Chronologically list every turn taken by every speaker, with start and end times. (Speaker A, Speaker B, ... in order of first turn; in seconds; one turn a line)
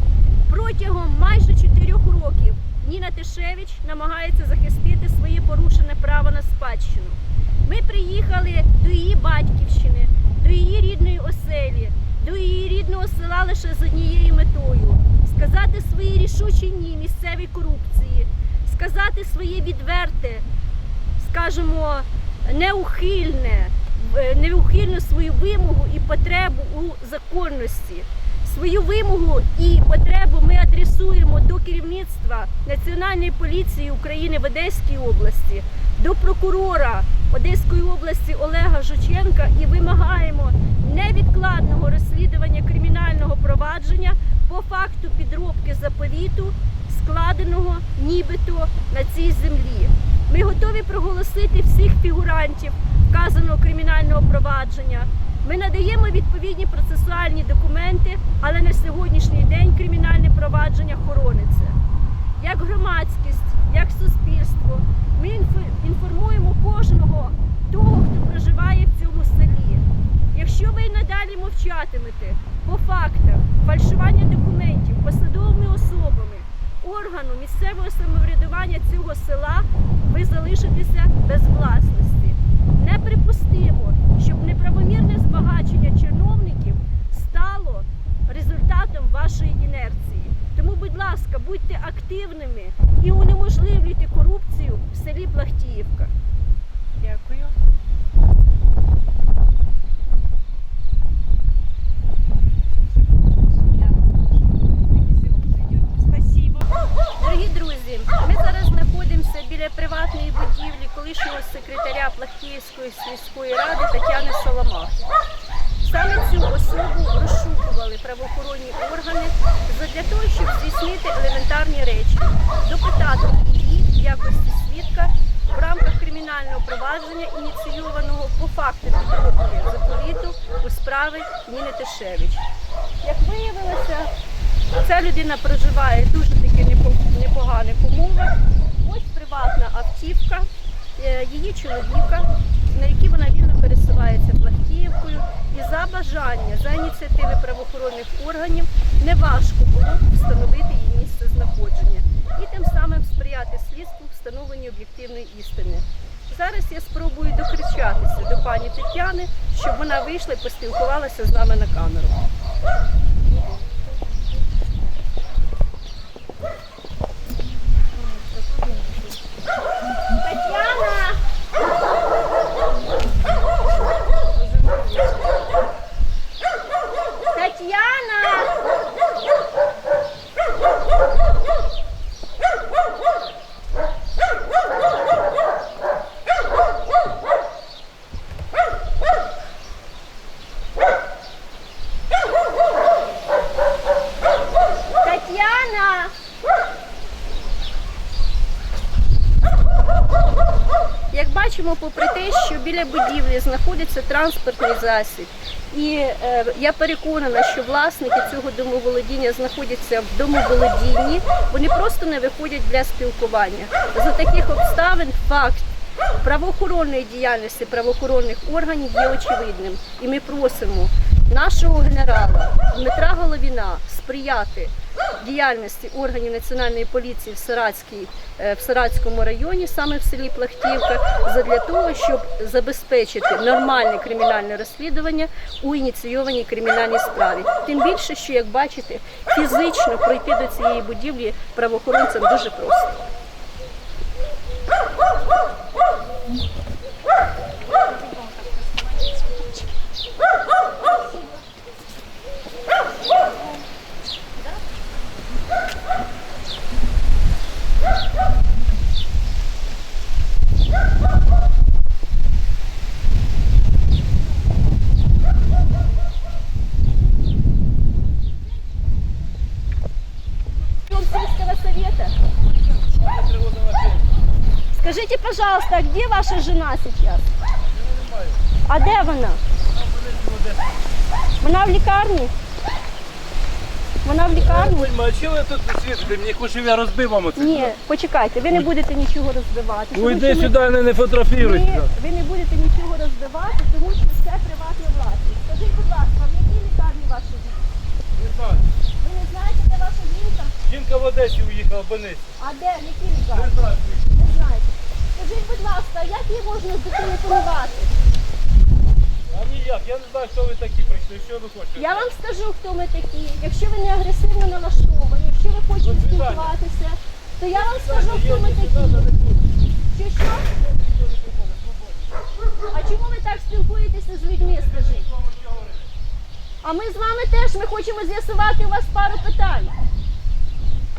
Speaker A: 0.5-20.4
Speaker A: 21.2-61.8
Speaker A: 62.4-96.1
Speaker B: 97.0-97.5
Speaker B: 102.5-106.7
Speaker A: 107.2-115.0
Speaker A: 115.8-132.4
Speaker A: 133.0-134.1
Speaker A: 134.8-162.2
Speaker B: 163.3-164.3
Speaker B: 167.9-169.2
Speaker A: 170.2-171.2
Speaker B: 172.8-175.4
Speaker A: 177.3-178.6
Speaker A: 195.0-196.1
Speaker A: 201.1-243.0
Speaker B: 247.8-249.6
Speaker A: 250.9-251.3
Speaker B: 253.1-253.6
Speaker A: 270.9-272.1
Speaker C: 272.9-274.1
Speaker A: 274.7-277.2
Speaker C: 277.7-278.4
Speaker A: 278.7-279.4
Speaker C: 279.7-280.8
Speaker A: 281.4-282.3
Speaker A: 284.0-284.9
Speaker C: 284.3-287.7
Speaker A: 287.4-290.6
Speaker C: 289.9-291.9
Speaker A: 291.4-297.7
Speaker C: 298.1-298.7
Speaker A: 299.0-300.5
Speaker C: 300.6-302.3
Speaker A: 302.4-307.9
Speaker C: 303.3-304.1
Speaker C: 309.3-312.1
Speaker A: 311.8-319.0
Speaker C: 315.8-316.5
Speaker C: 317.5-319.5
Speaker A: 319.9-320.5
Speaker C: 320.8-322.1
Speaker A: 322.7-325.1
Speaker C: 324.5-325.8
Speaker A: 326.6-329.7